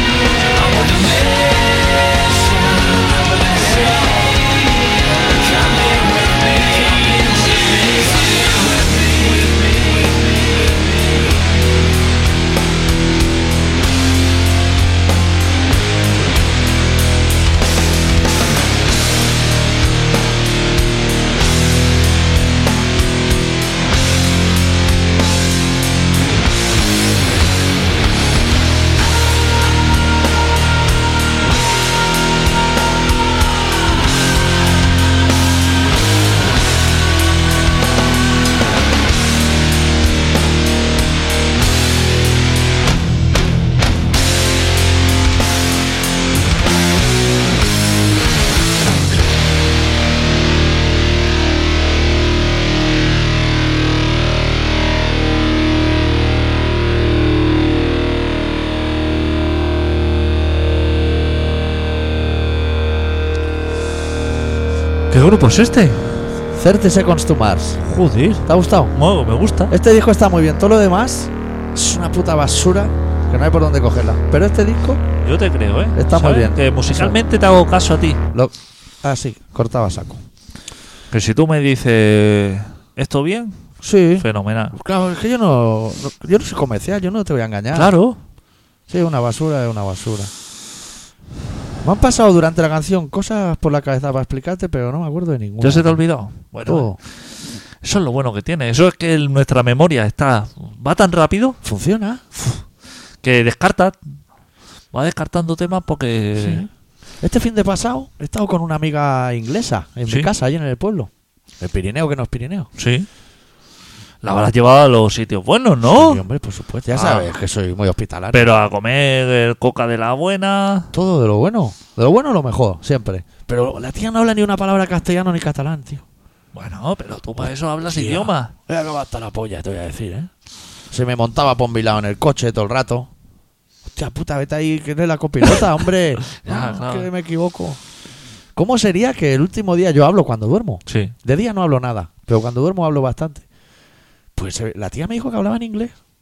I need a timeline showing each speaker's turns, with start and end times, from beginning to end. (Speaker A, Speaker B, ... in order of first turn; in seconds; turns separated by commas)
Speaker A: 0.5-11.4, Speaker B: 65.1-66.2, Speaker C: 66.5-67.8, Speaker B: 67.8-69.7, Speaker C: 68.5-68.9, Speaker C: 69.7-75.0, Speaker B: 75.2-78.2, Speaker C: 76.0-77.2, Speaker C: 78.3-80.2, Speaker B: 81.1-83.6, Speaker C: 83.8-87.9, Speaker B: 84.2-84.8, Speaker B: 87.7-88.2, Speaker C: 88.9-90.3, Speaker C: 91.8-96.0, Speaker B: 95.6-96.9, Speaker C: 96.7-97.0, Speaker B: 97.8-101.6, Speaker C: 101.6-102.2, Speaker B: 102.4-102.6, Speaker B: 103.2-104.0, Speaker B: 104.9-106.7, Speaker C: 106.4-106.7, Speaker C: 107.2-112.7, Speaker B: 112.8-113.1, Speaker B: 114.2-116.2, Speaker C: 115.8-118.5, Speaker B: 116.9-117.3, Speaker B: 118.3-120.9, Speaker C: 120.9-126.0, Speaker B: 126.5-128.5, Speaker C: 127.9-130.3, Speaker C: 130.9-133.1, Speaker C: 133.9-137.8, Speaker B: 136.3-137.1, Speaker C: 138.6-143.4, Speaker B: 140.9-141.1, Speaker C: 144.4-145.9